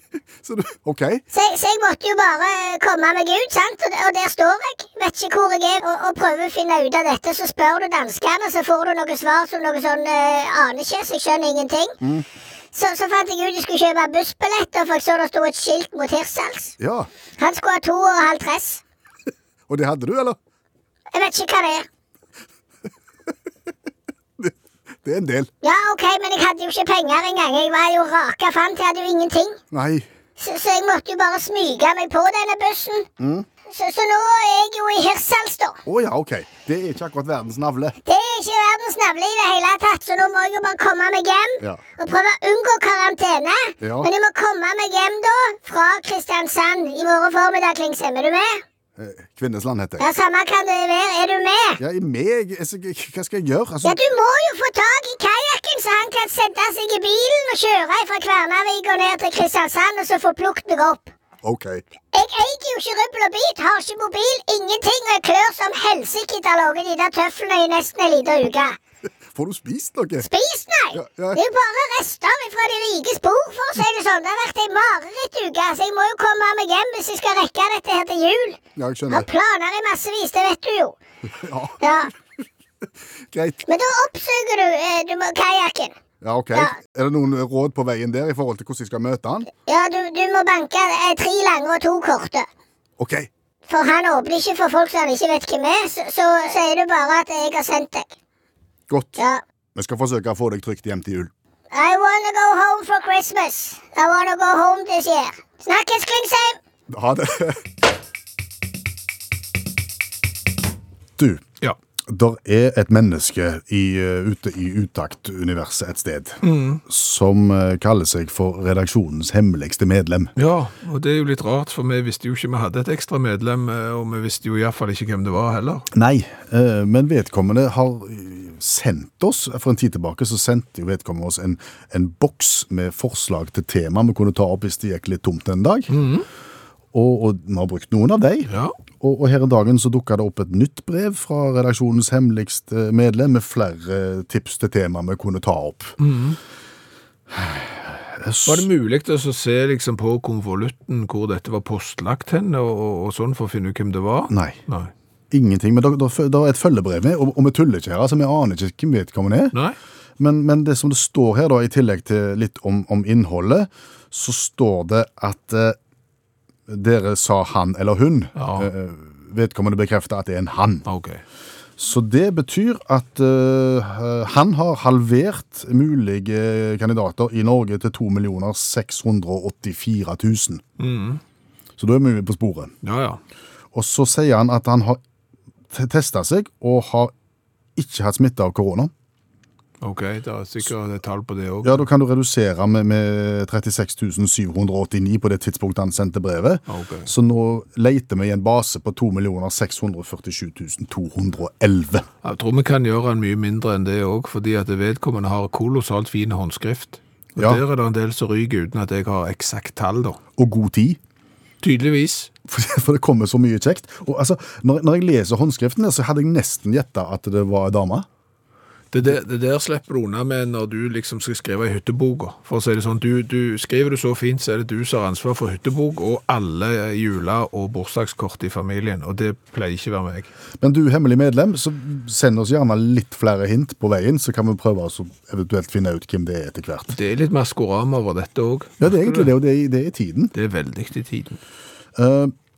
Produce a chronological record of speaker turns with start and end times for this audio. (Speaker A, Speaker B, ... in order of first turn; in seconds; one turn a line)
Speaker A: 0.4-1.2
Speaker B: 1.3-11.9
Speaker B: 12.7-16.7
Speaker A: 16.8-17.1
Speaker B: 17.4-18.8
Speaker A: 19.7-20.4
Speaker B: 21.1-21.9
Speaker A: 24.4-25.5
Speaker B: 25.6-29.6
Speaker A: 29.7-30.1
Speaker B: 30.4-33.1
Speaker A: 33.2-33.5
Speaker B: 33.7-35.8
Speaker A: 35.8-38.0
Speaker B: 38.0-48.6
Speaker A: 43.8-44.1
Speaker A: 49.0-50.0
Speaker B: 50.0-51.8
Speaker A: 51.8-54.0
Speaker B: 53.8-61.1
Speaker A: 61.4-61.8
Speaker B: 62.1-68.8
Speaker A: 69.3-70.3
Speaker B: 70.2-81.0
Speaker A: 70.9-71.4
Speaker A: 78.8-79.3
Speaker A: 81.3-81.8
Speaker B: 81.8-82.1
Speaker A: 83.3-83.6
Speaker B: 83.7-86.0
Speaker A: 86.2-89.5
Speaker B: 89.7-92.5
Speaker A: 93.0-93.3
Speaker B: 93.7-98.1
Speaker A: 98.9-99.2
Speaker B: 99.2-99.4
Speaker A: 99.7-101.3
Speaker B: 101.7-106.6
Speaker A: 106.9-107.6
Speaker A: 111.2-111.4
Speaker A: 112.1-120.3
Speaker C: 116.4-116.8
Speaker C: 120.3-125.9
Speaker A: 125.9-135.9
Speaker C: 135.9-136.2
Speaker A: 136.9-145.9
Speaker C: 138.5-138.7
Speaker C: 146.0-146.4
Speaker A: 147.3-148.7
Speaker C: 148.4-154.9
Speaker A: 154.3-154.6
Speaker A: 155.3-159.5
Speaker A: 160.2-165.8
Speaker A: 166.7-170.8
Speaker C: 168.3-168.7
Speaker C: 170.9-171.2
Speaker A: 171.8-180.6
Speaker C: 180.8-181.2
Speaker A: 181.8-182.7
Speaker C: 182.8-183.2
Speaker A: 183.7-185.0
Speaker A: 185.7-187.1
Speaker A: 187.8-188.9
Speaker C: 189.8-191.8
Speaker A: 191.6-202.1
Speaker C: 196.7-197.1
Speaker C: 202.2-210.2
Speaker A: 210.4-211.0
Speaker C: 211.6-212.3
Speaker A: 212.5-218.1
Speaker C: 218.9-230.3
Speaker A: 230.6-236.9
Speaker C: 236.9-239.3
Speaker A: 238.8-240.3
Speaker C: 240.3-241.4
Speaker A: 241.9-242.3